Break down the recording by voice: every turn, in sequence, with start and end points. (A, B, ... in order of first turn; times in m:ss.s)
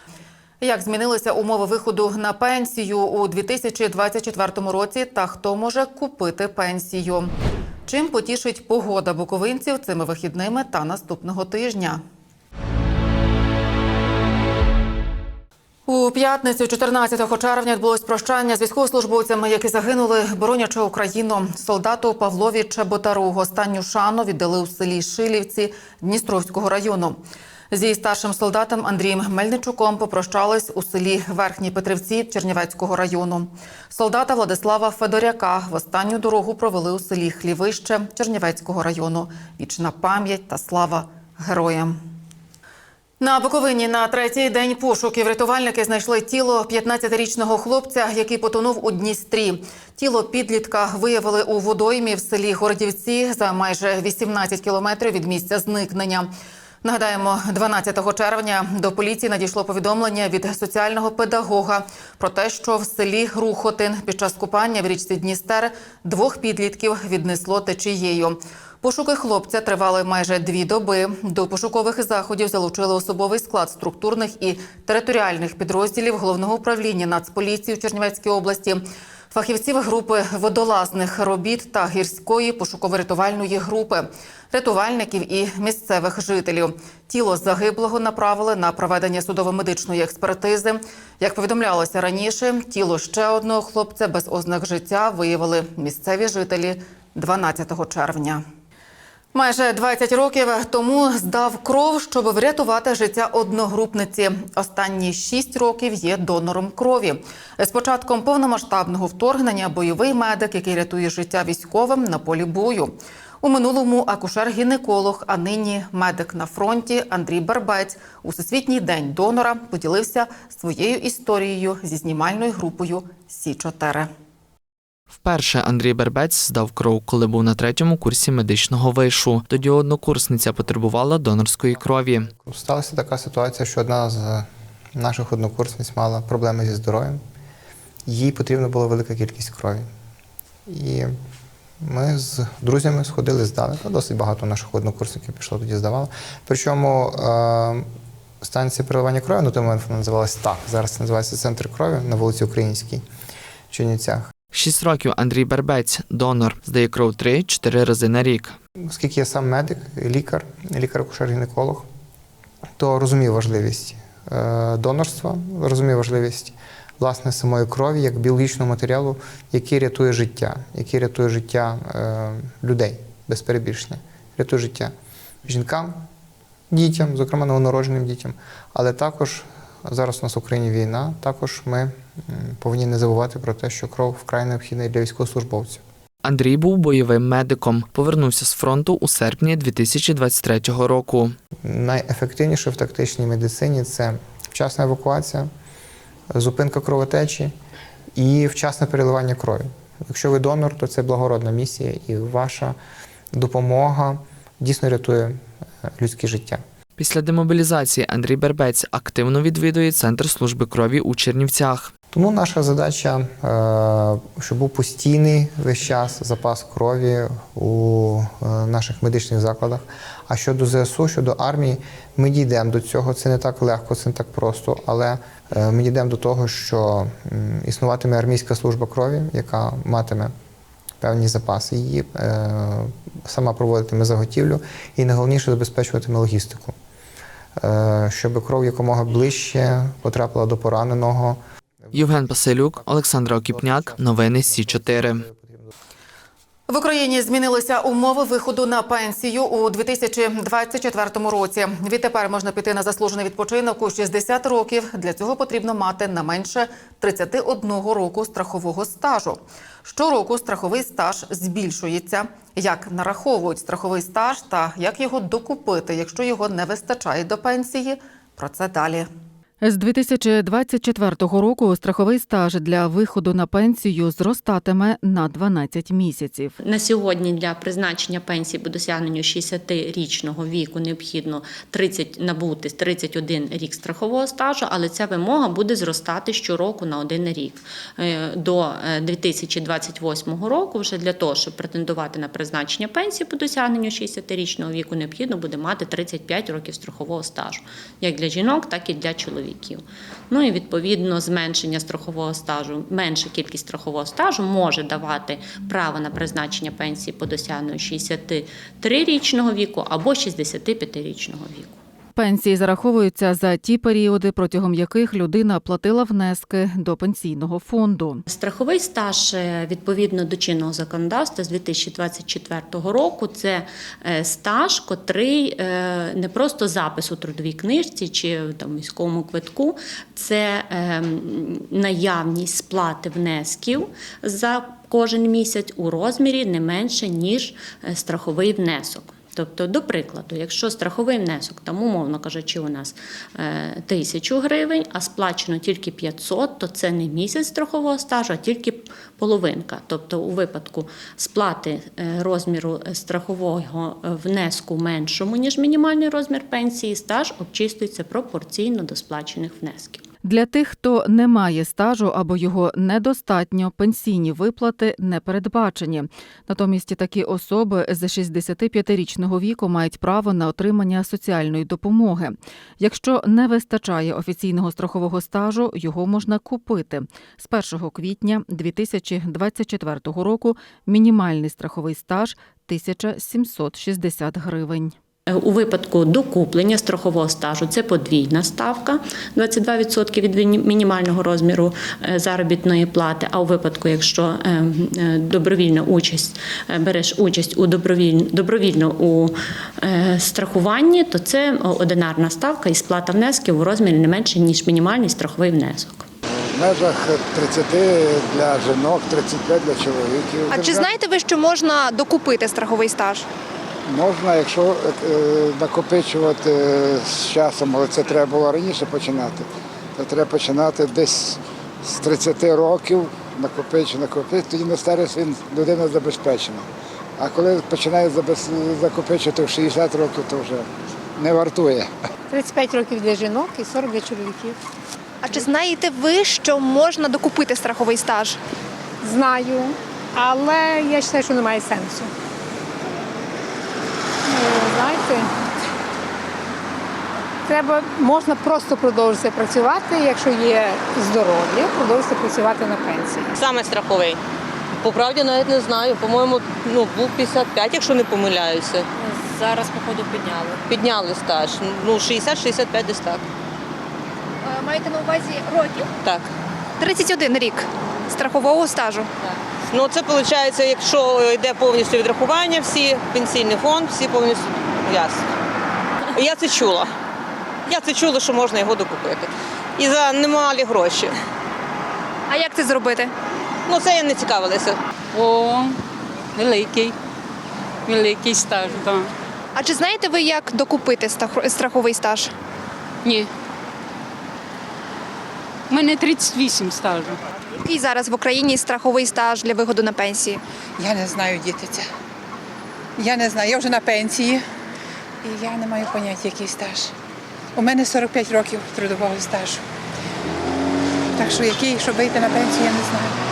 0:00.6-0:07.3 A
0:07.9-0:12.0 A
0:15.9-0:27.2 A
0:27.7-0:42.0 A
0:43.2-0:56.3 A
0:56.8-1:38.4 A
1:39.3-2:04.1 A
2:05.1-2:12.3 B
2:12.2-2:17.2 C
2:18.1-2:19.8 C
2:20.7-2:21.1 C
2:21.8-2:27.8 C
2:28.4-2:33.0 C
2:33.7-2:34.3 C
2:34.5-2:38.6 B
2:38.9-2:41.9 C
2:42.8-2:54.9 C
2:55.5-2:56.0 C
2:56.7-3:05.8 C
3:06.2-3:11.3 B
3:11.6-3:15.5 C
3:16.3-3:17.5 C
3:18.2-3:22.8 C
3:23.3-3:25.4 C
3:26.0-3:26.6 C
3:27.0-3:31.9 B
3:32.1-3:50.3 C
3:51.0-3:56.7 C
3:57.6-4:05.7 C
4:01.9-4:05.2 B
4:06.7-4:29.1 A
4:29.6-4:36.5 D
4:36.6-5:11.8 E
5:12.2-5:18.2 D
5:18.3-6:00.0 E
6:00.4-6:24.9 D
6:25.3-6:46.0 E
6:46.4-6:50.9 F
6:50.5-6:53.2 G
6:53.9-7:06.6 F
7:07.2-7:11.9 F
7:12.3-7:14.6 H
7:15.2-7:18.4 G
7:19.0-7:22.1 H
7:24.3-7:25.3 H
7:27.5-7:33.2 H
7:33.4-7:34.2 I
7:34.7-7:38.9 I
7:39.0-7:40.3 J
7:40.0-7:43.2 I
7:46.0-7:46.3 I
7:46.8-7:49.1 G
7:49.7-7:55.2 I
7:56.2-7:56.9 I
7:57.7-8:01.1 I
8:02.3-8:03.1 G
8:03.7-8:04.8 I
8:05.1-8:05.8 J
8:06.4-8:06.9 J
8:07.9-8:09.1 J
8:09.6-8:12.3 G
8:15.7-8:17.2 J
8:17.6-8:20.4 G
8:20.8-8:21.8 K
8:23.0-8:24.4 K
8:25.2-8:26.8 K
8:27.6-8:29.6 K
8:31.2-8:33.1 K